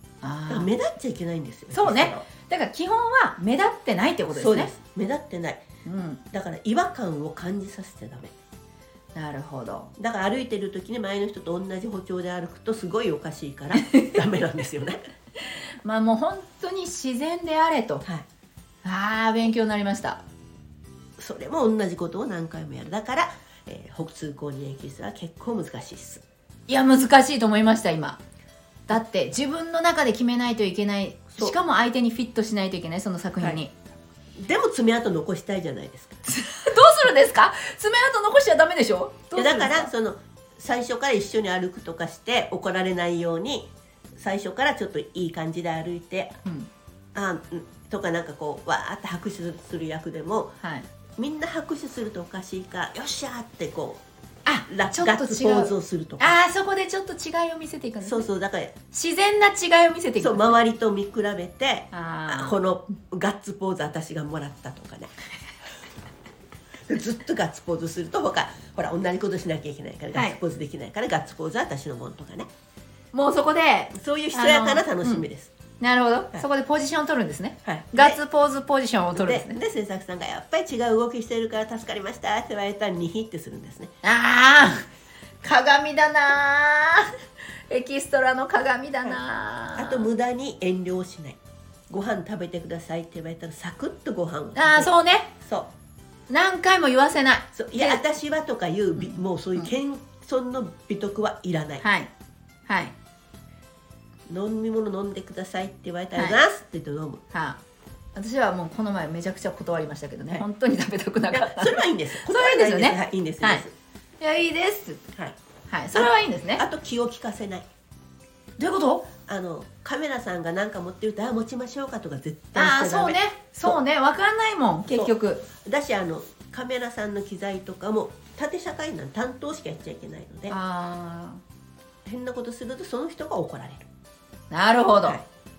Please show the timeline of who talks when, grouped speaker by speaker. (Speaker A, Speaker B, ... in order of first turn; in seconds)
Speaker A: 0.2-0.7, 1.7-4.7, 5.8-6.2, 9.2-9.9, 15.8-18.1, 18.8-20.2, 26.7-28.2, 28.9-33.7, 36.3-39.9, 46.5-46.7, 50.6-50.9, 54.5-58.3, 58.9-60.6, 61.9-62.6, 73.1-75.2, 75.8-79.6, 84.0-84.8, 85.4-87.0, 87.7-90.1, 94.6-95.3, 96.3-98.0, 99.0-99.7, 101.8-102.1, 102.7-102.9, 107.3-107.6, 108.2-113.7, 114.2-115.0, 115.7-116.6, 118.6-119.1, 122.5-125.5, 130.5-131.4, 134.5-135.2
Speaker B: 0.5-2.3, 4.3-5.6, 6.3-8.3, 10.0-15.0, 21.2-26.2, 34.4-36.2, 39.4-46.4, 47.1-50.5, 51.2-54.0, 54.7-56.4, 58.0-58.8, 60.2-65.1, 66.9-72.5, 74.0-75.5, 77.7-78.2, 79.1-83.9, 89.8-91.4, 91.9-95.7, 97.5-101.8, 104.3-107.2, 111.3-113.7, 115.9-117.7, 119.3-123.8, 124.9-130.6, 132.1-133.9